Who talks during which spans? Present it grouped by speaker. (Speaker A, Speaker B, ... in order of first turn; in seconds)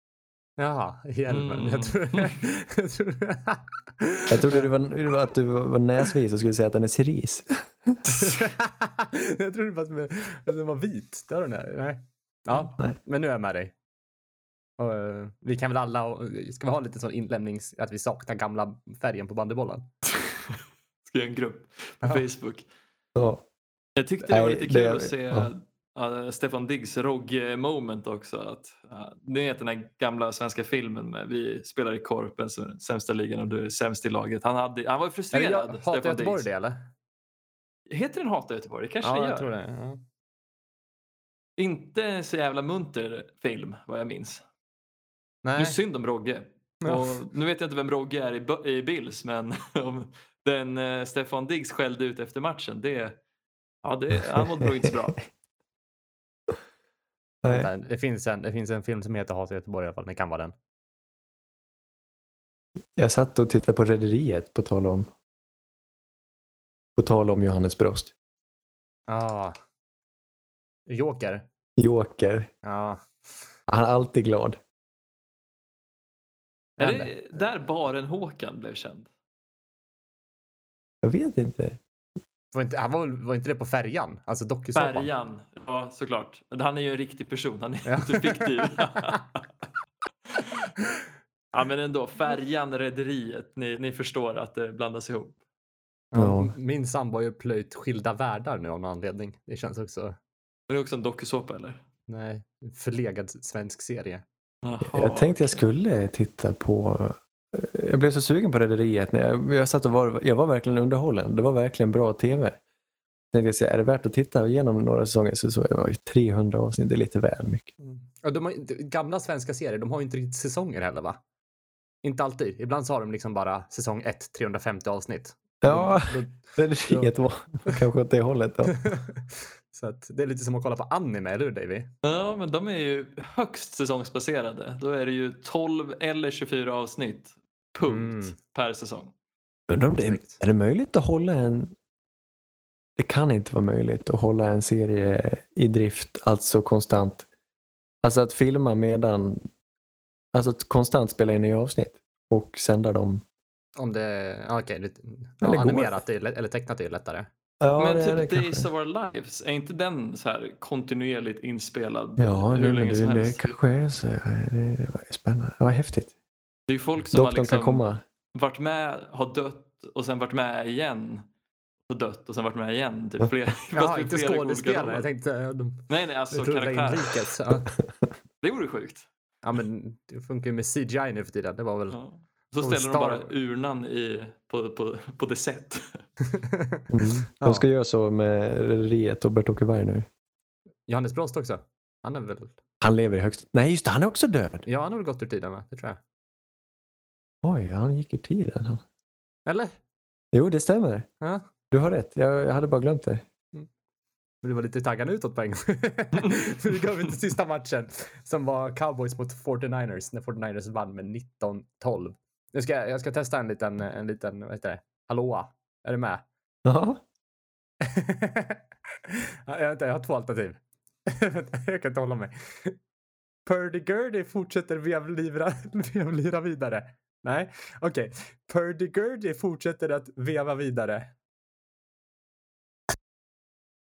Speaker A: 0.6-4.7, 8.1-13.7, 14.8-19.9, 35.3-36.8, 39.0-40.0, 45.4-45.8, 46.8-47.2, 57.5-60.5, 69.1-69.5, 70.9-71.5, 72.6-73.1, 76.8-77.1, 82.5-85.1, 87.8-89.2, 96.1-100.2, 102.1-104.2, 117.8-121.2, 122.0-127.1, 128.7-131.9, 137.8-138.3, 140.0-140.4, 153.8-157.3, 173.7-177.7, 179.4-182.0, 182.6-183.3, 186.4-186.8, 187.4-187.6, 190.9-192.6, 194.7-196.0, 199.4-199.7, 201.2-201.5, 204.4-216.2, 217.8-222.8, 223.4-231.1
Speaker B: 1.3-2.4, 20.5-22.6, 24.0-36.4, 37.9-39.5, 41.6-44.4, 45.6-53.2, 53.8-55.2, 76.8-79.1, 84.8-89.4, 91.5-95.4, 100.7-101.8, 104.6-105.6, 132.0-139.1, 157.8-163.5, 166.7-171.2, 171.9-175.1, 175.9-177.1, 178.4-179.1, 181.9-186.0
Speaker C: 4.3-8.3, 23.1-23.4, 24.2-25.5, 54.4-55.1, 57.4-57.7, 63.0-65.1, 67.0-68.1, 71.8-72.5, 73.7-74.6, 81.0-81.8, 96.2-96.5, 104.9-112.6, 113.3-117.7, 125.6-128.8, 139.7-141.7, 143.0-147.2, 148.0-149.4, 150.3-153.2, 155.4-156.0, 157.6-158.7, 162.2-166.1, 167.1-168.0, 186.9-190.1, 192.8-194.7, 197.4-198.8, 200.3-201.1, 201.7-203.2, 216.6-217.0